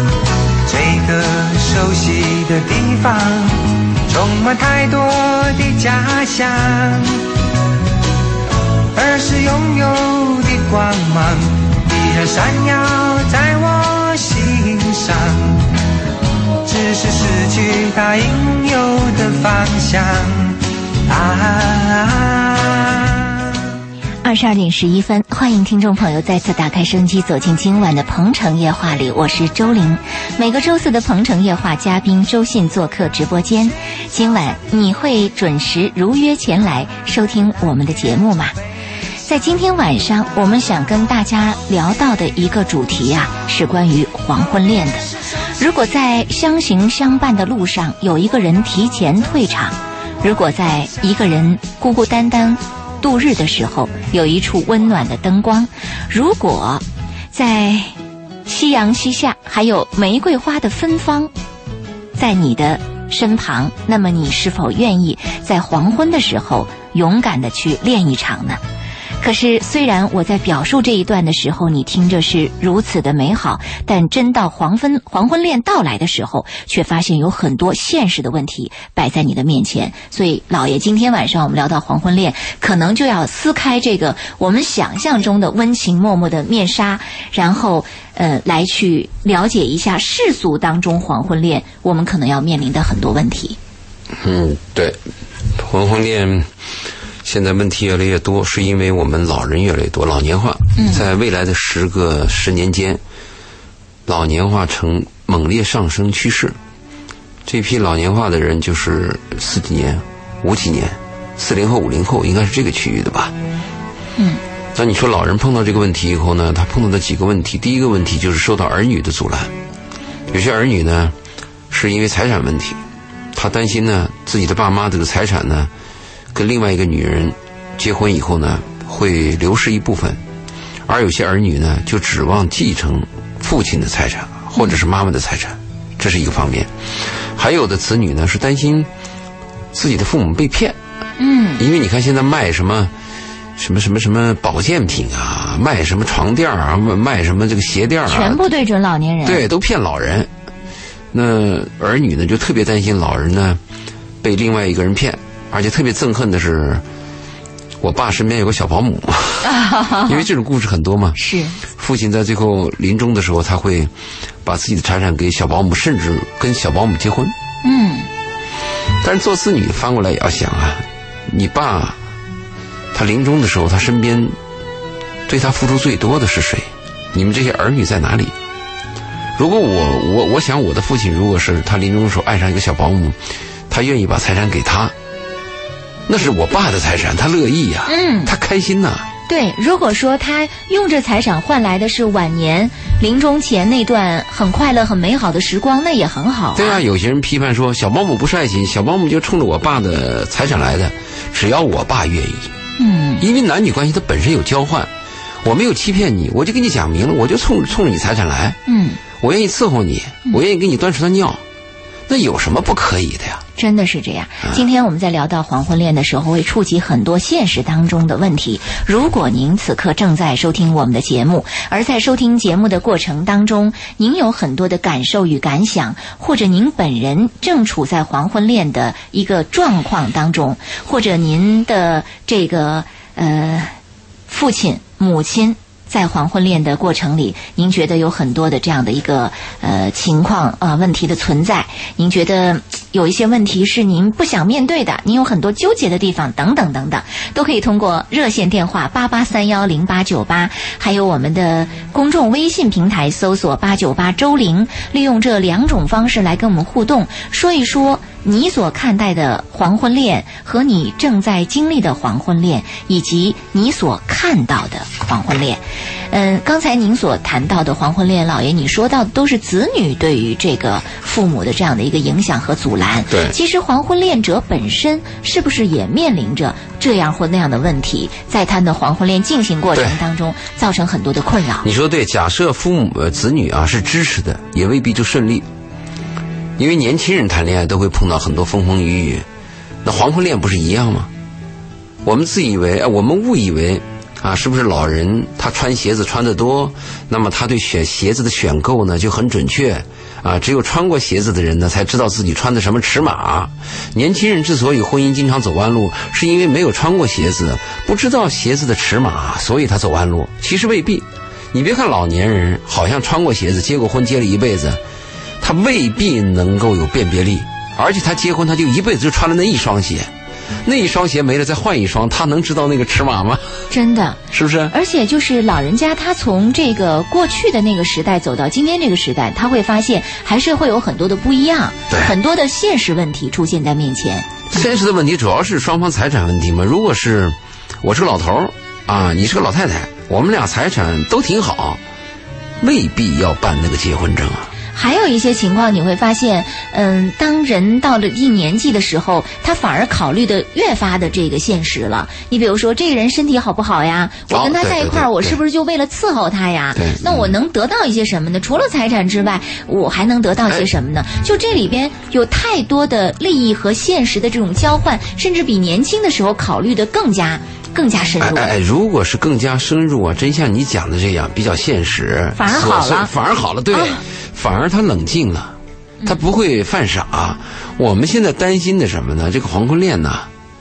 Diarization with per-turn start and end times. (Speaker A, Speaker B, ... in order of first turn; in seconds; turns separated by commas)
Speaker A: 0.6-7.2, Speaker A: 8.9-15.7, Speaker A: 16.6-23.5, Speaker B: 24.2-38.5, Speaker B: 39.3-45.1, Speaker B: 45.6-58.0, Speaker B: 58.5-61.3, Speaker B: 62.1-68.6, Speaker B: 69.2-93.6, Speaker C: 94.2-95.0, Speaker C: 95.5-96.5, Speaker C: 97.2-103.0, Speaker B: 100.8-101.1, Speaker C: 104.1-106.6, Speaker C: 107.5-113.3, Speaker C: 114.7-119.5, Speaker C: 120.3-121.2, Speaker C: 121.7-122.8, Speaker C: 123.3-125.7, Speaker C: 126.3-130.2, Speaker C: 130.9-138.9, Speaker C: 139.7-140.8, Speaker B: 141.2-141.6, Speaker C: 141.6-142.9, Speaker C: 143.6-148.4, Speaker B: 148.1-149.4, Speaker C: 149.2-150.3, Speaker C: 151.1-153.6, Speaker C: 154.2-156.8, Speaker C: 157.8-159.5, Speaker B: 159.4-160.3, Speaker C: 160.1-161.2, Speaker B: 161.2-161.6, Speaker C: 161.8-163.9, Speaker C: 164.4-167.3, Speaker B: 167.6-168.1, Speaker C: 169.0-172.0, Speaker C: 172.9-174.4, Speaker C: 175.3-178.3, Speaker C: 179.4-184.9, Speaker C: 186.1-189.1, Speaker B: 187.9-188.3, Speaker B: 189.3-196.8, Speaker C: 196.6-202.5, Speaker B: 202.8-203.2, Speaker C: 203.2-204.9, Speaker C: 205.4-208.6, Speaker B: 208.7-209.0, Speaker C: 209.2-211.4, Speaker C: 212.1-213.4, Speaker B: 213.6-233.8, Speaker B: 234.3-281.7, Speaker C: 273.1-273.4, Speaker C: 279.8-280.0, Speaker C: 281.6-285.5, Speaker C: 286.6-289.3, Speaker C: 289.8-291.1, Speaker C: 292.0-314.8, Speaker C: 315.4-320.1, Speaker C: 320.6-323.6, Speaker B: 323.7-334.6, Speaker C: 324.3-324.7, Speaker C: 331.9-332.2, Speaker C: 334.5-341.8, Speaker C: 342.6-344.5, Speaker B: 344.7-368.5, Speaker C: 354.3-355.4, Speaker C: 356.8-357.4, Speaker C: 368.2-380.3, Speaker B: 372.4-373.1, Speaker B: 373.7-374.0